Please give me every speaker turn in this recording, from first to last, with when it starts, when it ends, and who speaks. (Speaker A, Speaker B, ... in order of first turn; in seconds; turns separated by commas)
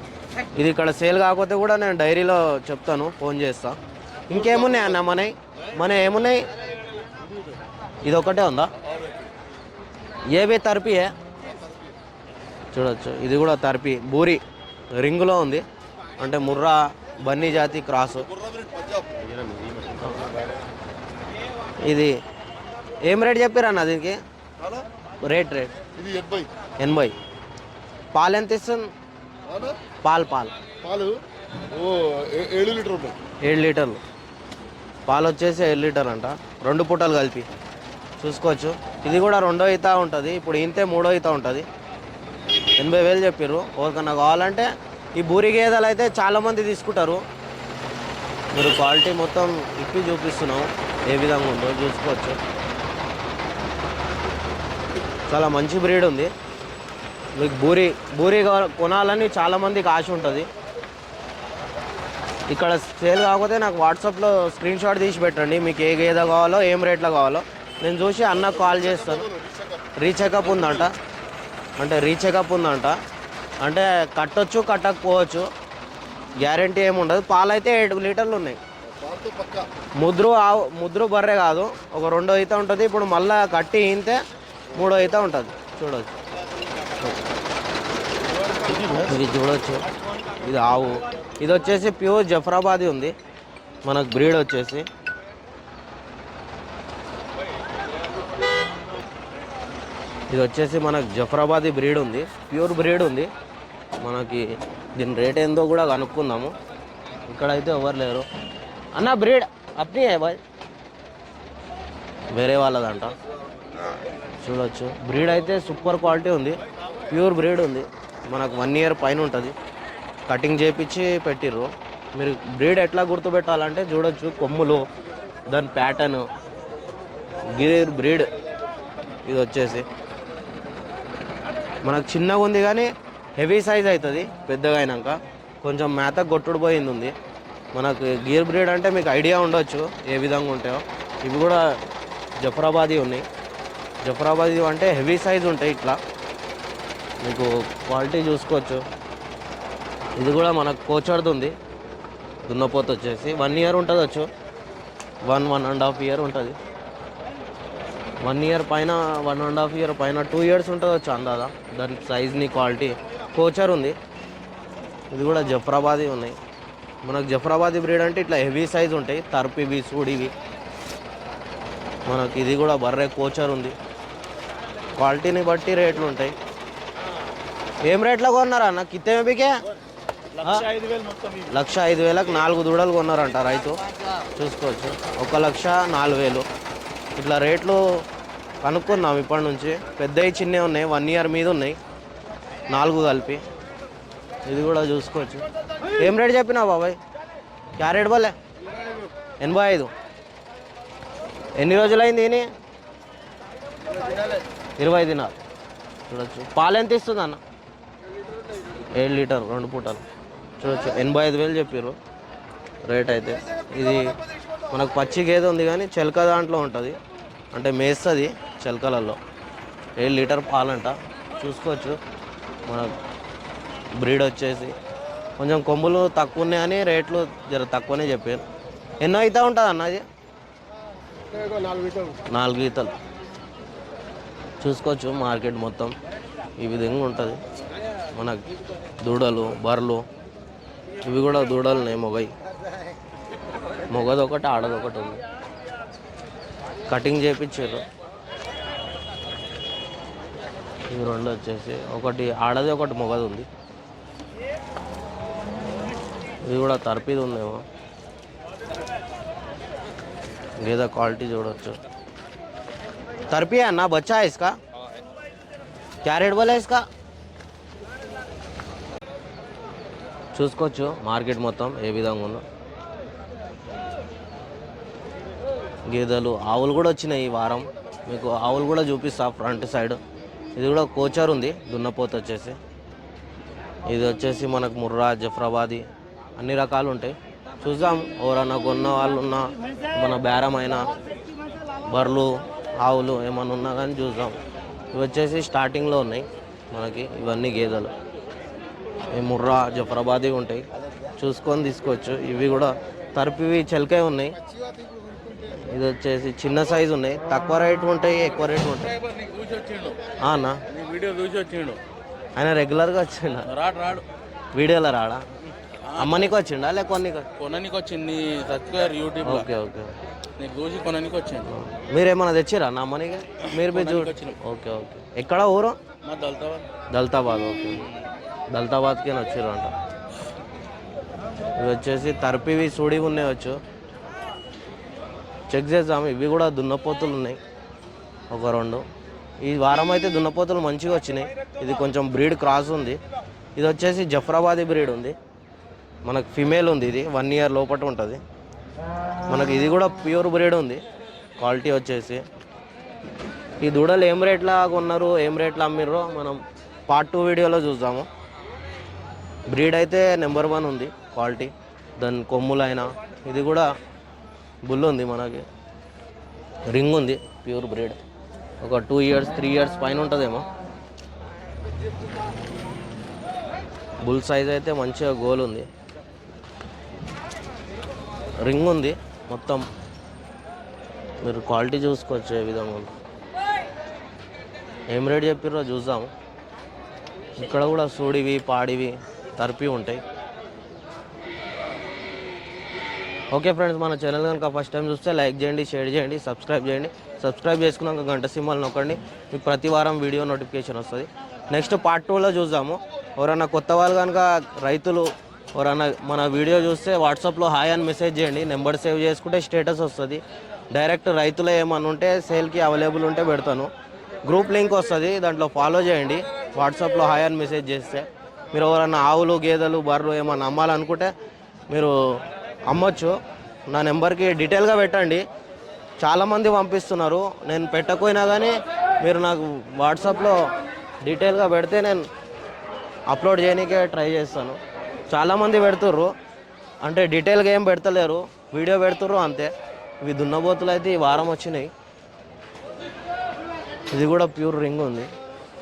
Speaker A: 0.6-3.8, Speaker A: 4.3-6.4, Speaker A: 8.1-8.7, Speaker A: 10.3-11.1, Speaker A: 12.7-14.4, Speaker A: 15.0-15.6, Speaker A: 16.2-18.3, Speaker B: 18.6-19.6, Speaker A: 20.0-20.3, Speaker A: 21.8-22.2, Speaker A: 23.1-24.2, Speaker A: 25.2-25.7, Speaker B: 26.0-26.5, Speaker A: 26.8-27.1, Speaker A: 28.1-28.9, Speaker A: 30.0-30.6, Speaker B: 30.8-31.2, Speaker B: 31.7-33.2, Speaker A: 33.4-34.0, Speaker A: 35.1-37.5, Speaker A: 38.2-41.7, Speaker A: 42.8-47.2, Speaker A: 48.5-52.4, Speaker A: 55.3-56.3, Speaker A: 57.4-60.5, Speaker A: 62.5-69.3, Speaker B: 69.4-69.8, Speaker A: 70.0-71.0, Speaker A: 71.8-73.0, Speaker A: 73.6-75.5, Speaker A: 76.4-78.6, Speaker B: 79.0-79.7, Speaker A: 80.0-84.2, Speaker A: 84.7-86.2, Speaker A: 88.9-89.9, Speaker A: 90.4-93.1, Speaker A: 93.8-94.9, Speaker A: 100.3-103.3, Speaker A: 104.0-106.5, Speaker A: 107.3-108.2, Speaker A: 109.0-110.4, Speaker A: 112.3-113.2, Speaker A: 114.4-116.6, Speaker A: 117.1-119.5, Speaker A: 120.3-124.8, Speaker A: 125.5-126.3, Speaker A: 127.5-128.3, Speaker A: 129.2-129.8, Speaker A: 131.8-137.2, Speaker A: 137.7-141.8, Speaker A: 142.4-143.3, Speaker A: 144.0-146.0, Speaker A: 147.2-148.8, Speaker A: 150.2-151.6, Speaker A: 152.4-154.3, Speaker A: 155.2-156.6, Speaker A: 158.2-164.0, Speaker A: 165.1-166.4, Speaker A: 167.0-170.3, Speaker A: 172.1-173.8, Speaker A: 174.9-176.3, Speaker A: 177.9-179.6, Speaker A: 180.4-180.7, Speaker C: 180.8-181.4, Speaker A: 181.5-186.5, Speaker A: 187.2-187.8, Speaker A: 188.6-191.8, Speaker A: 192.7-193.4, Speaker A: 194.5-195.4, Speaker A: 196.0-197.0, Speaker A: 197.8-198.4, Speaker A: 199.4-199.9, Speaker A: 201.6-202.5, Speaker A: 204.8-205.4, Speaker A: 206.1-207.4, Speaker A: 208.9-210.0, Speaker A: 210.6-212.0, Speaker A: 212.9-214.1, Speaker A: 214.7-217.0, Speaker A: 217.5-219.2, Speaker A: 220.0-222.0, Speaker A: 222.7-222.9, Speaker A: 224.0-224.7, Speaker A: 225.4-228.4, Speaker A: 229.0-230.1, Speaker A: 232.3-232.9, Speaker A: 234.6-235.9, Speaker A: 236.6-237.4, Speaker A: 238.1-238.4, Speaker A: 239.0-240.1, Speaker A: 241.0-242.3, Speaker A: 243.9-245.2, Speaker A: 246.9-247.8, Speaker A: 250.9-253.5, Speaker A: 256.5-257.6, Speaker A: 260.6-261.8, Speaker A: 263.3-264.6, Speaker A: 266.0-266.8, Speaker A: 270.3-272.4, Speaker A: 275.9-280.0, Speaker A: 280.6-282.6, Speaker A: 283.9-285.9, Speaker A: 286.4-290.9, Speaker A: 291.9-294.4, Speaker A: 294.9-297.9, Speaker A: 299.1-300.6, Speaker A: 301.2-304.4, Speaker A: 305.4-309.0, Speaker C: 309.0-310.0, Speaker A: 310.2-310.6, Speaker C: 310.7-311.8, Speaker A: 312.4-313.5, Speaker C: 313.5-314.1, Speaker A: 314.5-315.2, Speaker C: 315.9-316.3, Speaker A: 315.9-317.3, Speaker C: 317.4-319.4, Speaker A: 319.2-319.9, Speaker C: 320.4-321.4, Speaker A: 321.4-325.8, Speaker C: 323.6-324.3, Speaker C: 326.0-326.7, Speaker A: 326.9-327.9, Speaker A: 328.5-329.7, Speaker A: 331.6-333.6, Speaker A: 335.5-337.4, Speaker A: 338.3-338.9, Speaker A: 339.4-343.0, Speaker A: 343.6-345.1, Speaker A: 346.1-348.2, Speaker A: 349.3-350.8, Speaker A: 351.4-352.2, Speaker A: 353.6-358.1, Speaker A: 359.5-363.7, Speaker A: 364.7-365.4, Speaker A: 366.7-368.0, Speaker A: 368.6-370.5, Speaker A: 374.0-375.7, Speaker A: 378.4-379.6, Speaker A: 381.2-382.9, Speaker A: 384.9-386.1, Speaker A: 387.4-390.0, Speaker A: 393.3-413.7, Speaker A: 414.2-421.1, Speaker A: 422.7-423.1, Speaker A: 423.7-425.2, Speaker A: 426.0-430.4, Speaker A: 431.0-432.1, Speaker A: 433.1-434.6, Speaker A: 435.1-436.1, Speaker A: 436.8-439.5, Speaker A: 440.0-441.7, Speaker A: 443.9-445.1